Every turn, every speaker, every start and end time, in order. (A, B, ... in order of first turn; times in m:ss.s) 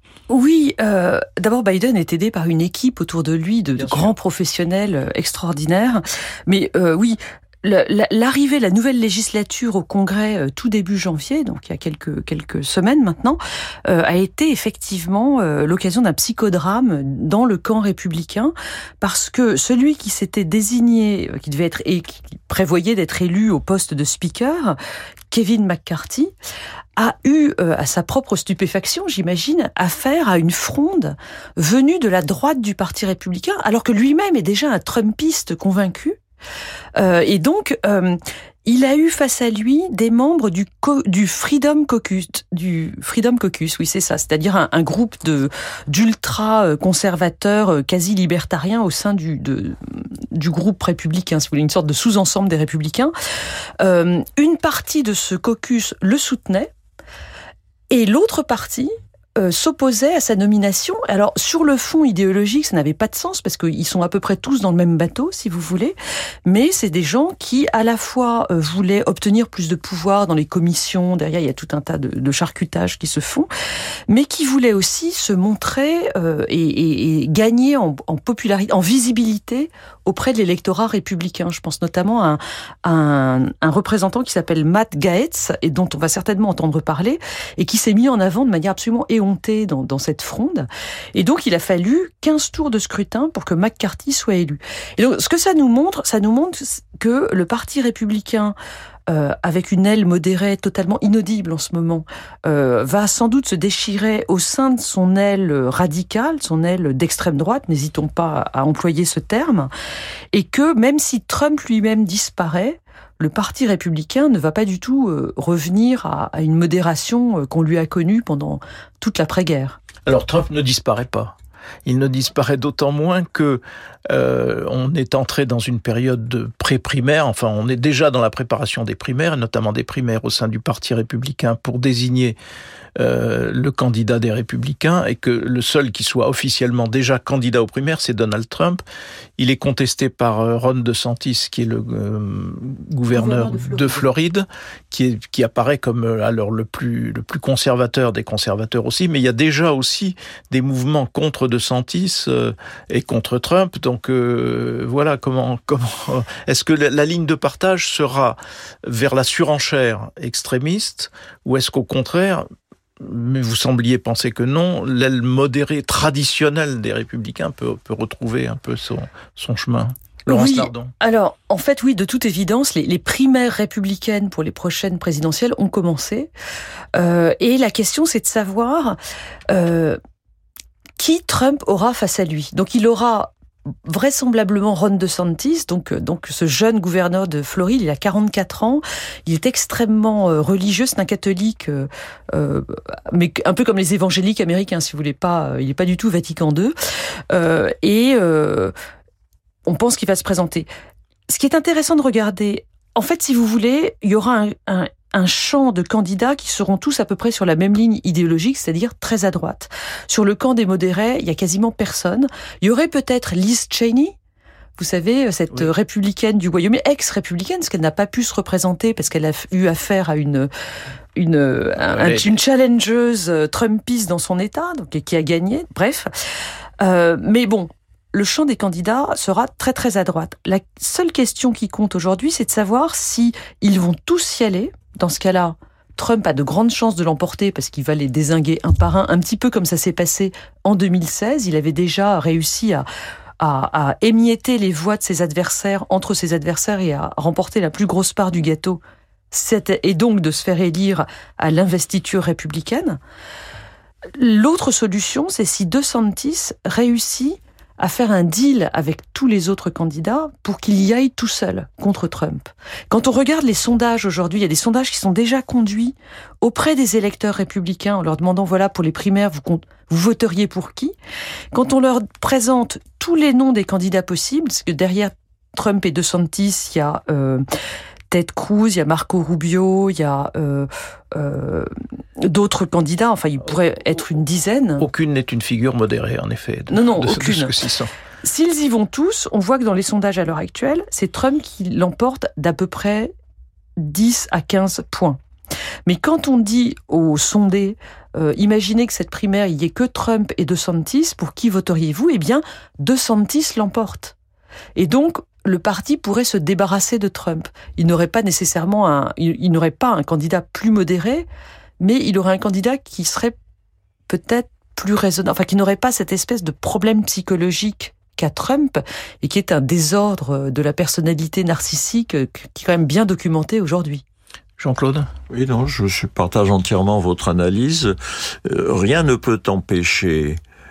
0:00.3-0:24.8 A
0:03.8-0:04.2 B
0:25.3-0:26.3 A
0:27.0-0:36.2 A
0:37.0-0:53.1 A
0:53.8-0:56.7 A
0:57.9-1:13.5 A
1:14.1-1:38.6 A
1:39.1-1:49.7 A
1:50.3-1:59.8 A
2:00.1-2:12.4 B
2:13.0-2:18.8 B
2:19.4-2:42.5 B
2:23.1-2:24.0 A
2:43.0-2:50.9 B
2:50.3-2:56.3 A
2:57.0-2:59.0 A
2:59.5-3:00.0 A
3:01.0-3:03.3 A
3:03.8-3:16.7 A
3:17.3-3:18.7 A
3:19.7-3:20.7 A
3:21.3-3:34.2 A
3:34.8-3:40.5 A
3:41.2-3:46.1 A
3:41.8-3:42.4 B
3:46.8-4:02.9 A
4:03.4-4:08.8 A
4:09.3-4:13.0 A
4:14.1-4:31.0 A
4:31.5-4:37.4 A
4:38.1-4:44.9 A
4:44.8-4:47.9 B
4:46.7-4:47.5 A
4:48.2-4:53.1 A
4:53.8-4:55.2 A
4:55.9-5:04.2 A
5:04.8-5:11.3 A
5:11.8-5:13.4 A
5:14.1-5:24.0 A
5:24.6-5:25.1 B
5:25.3-5:30.4 C